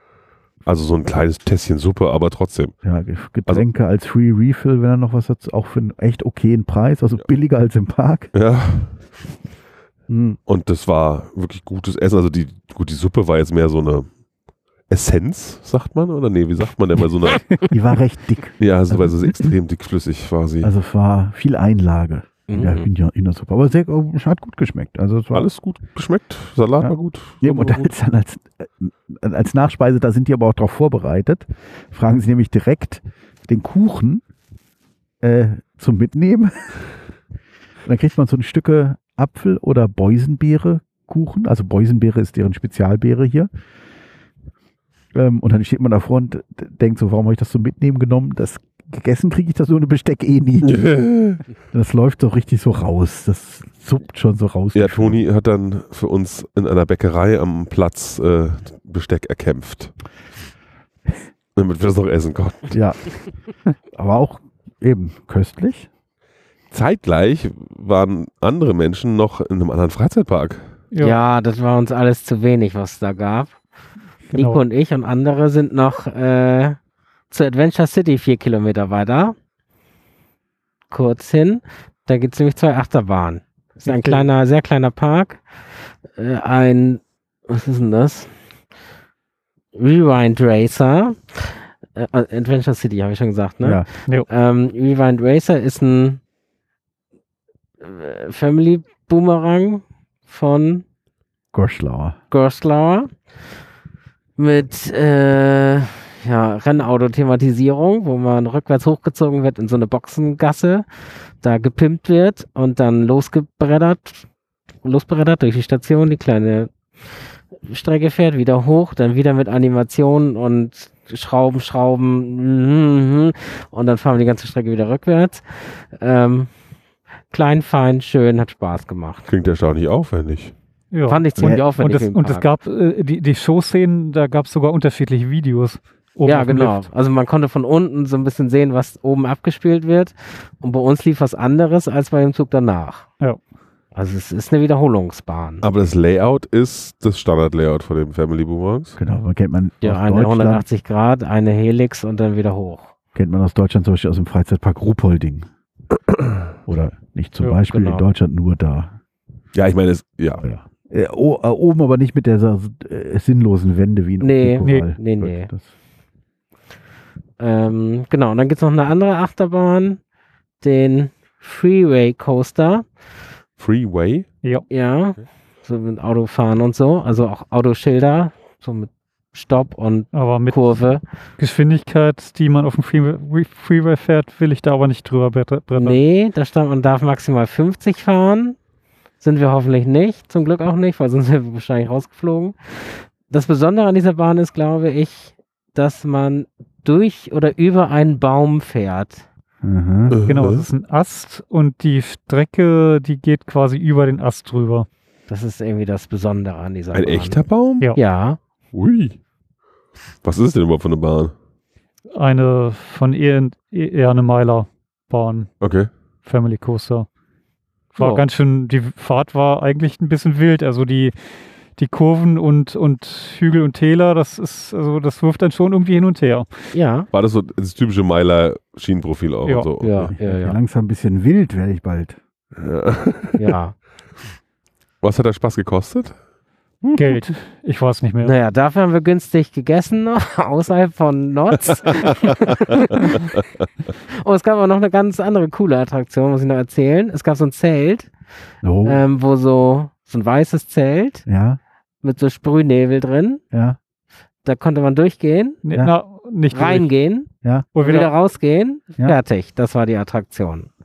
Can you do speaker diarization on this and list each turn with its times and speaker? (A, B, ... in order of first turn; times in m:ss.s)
0:00.6-0:02.8 A
0:02.8-0:08.3 B
0:08.3-0:09.0 A
0:10.1-0:10.4 B
0:10.5-0:14.1 A
0:14.9-0:17.5 A
0:17.7-0:19.1 B
0:18.6-0:20.7 A
0:20.6-0:25.5 B
0:22.5-0:22.9 C
0:25.3-0:27.9 A
0:26.8-0:34.2 B
0:35.2-0:36.8 B
0:37.8-0:43.5 B
0:45.1-0:50.8 B
0:50.6-0:51.4 A
0:51.7-0:55.2 B
0:54.8-0:59.9 A
1:01.6-1:02.8 A
1:02.7-1:03.1 B
1:03.9-1:05.9 B
1:06.7-1:10.7 A
1:10.9-1:11.2 D
1:11.0-1:13.6 C
1:14.3-1:16.8 C
1:14.3-1:14.6 D
1:17.3-1:19.4 C
1:20.9-1:25.4 C
1:23.8-1:24.2 D
1:26.2-1:28.3 C
1:29.7-1:36.2 C
1:33.6-1:33.9 B
1:37.8-1:40.8 C
1:41.5-1:42.2 B
1:42.3-1:43.2 C
1:44.4-1:50.9 C
1:51.4-1:54.3 C
1:54.8-1:56.7 C
1:57.6-2:06.5 C
2:07.3-2:09.3 C
2:09.3-2:10.6 A
2:10.9-2:16.9 D
2:11.1-2:12.5 C
2:11.4-2:11.6 B
2:16.3-2:23.1 C
2:24.0-2:25.6 C
2:25.6-2:29.0 A
2:29.0-2:30.6 B
2:29.8-2:32.9 C
2:33.2-2:35.5 B
2:36.7-2:39.0 B
2:37.7-2:38.0 C
2:39.5-2:40.4 A
2:40.4-2:45.7 B
2:44.2-2:45.5 C
2:47.4-2:50.0 C
2:50.6-2:52.9 C
2:53.6-2:54.3 A
2:54.7-3:01.0 C
3:00.1-3:00.8 D
3:01.4-3:06.0 D
3:05.8-3:08.6 C
3:09.2-3:19.2 C
3:19.6-3:20.2 B
3:20.1-3:20.7 A
3:20.3-3:24.9 D
3:25.3-3:27.4 C
3:26.9-3:27.9 A
3:28.0-3:28.4 C
3:28.7-3:29.2 A
3:30.2-3:31.3 A
3:32.1-3:35.5 D
3:35.6-3:35.9 A
3:36.2-3:37.1 D
3:38.0-3:41.2 D
3:38.0-3:38.2 C
3:41.8-3:46.8 D
3:46.7-3:47.1 C
3:47.1-3:50.1 A
3:49.8-3:50.6 C
3:50.2-3:52.2 B
3:52.6-3:53.4 A
3:53.4-3:53.8 C
3:55.0-3:56.2 A
3:57.0-3:58.4 D
3:58.2-4:03.2 C
4:02.0-4:03.4 A
4:04.1-4:08.1 C
4:08.6-4:09.0 B
4:08.8-4:11.2 C
4:11.3-4:11.6 B
4:12.0-4:13.4 C
4:13.5-4:13.8 B
4:14.4-4:15.6 C
4:15.6-4:16.9 D
4:16.5-4:20.7 C
4:17.4-4:17.7 B
4:17.8-4:18.1 D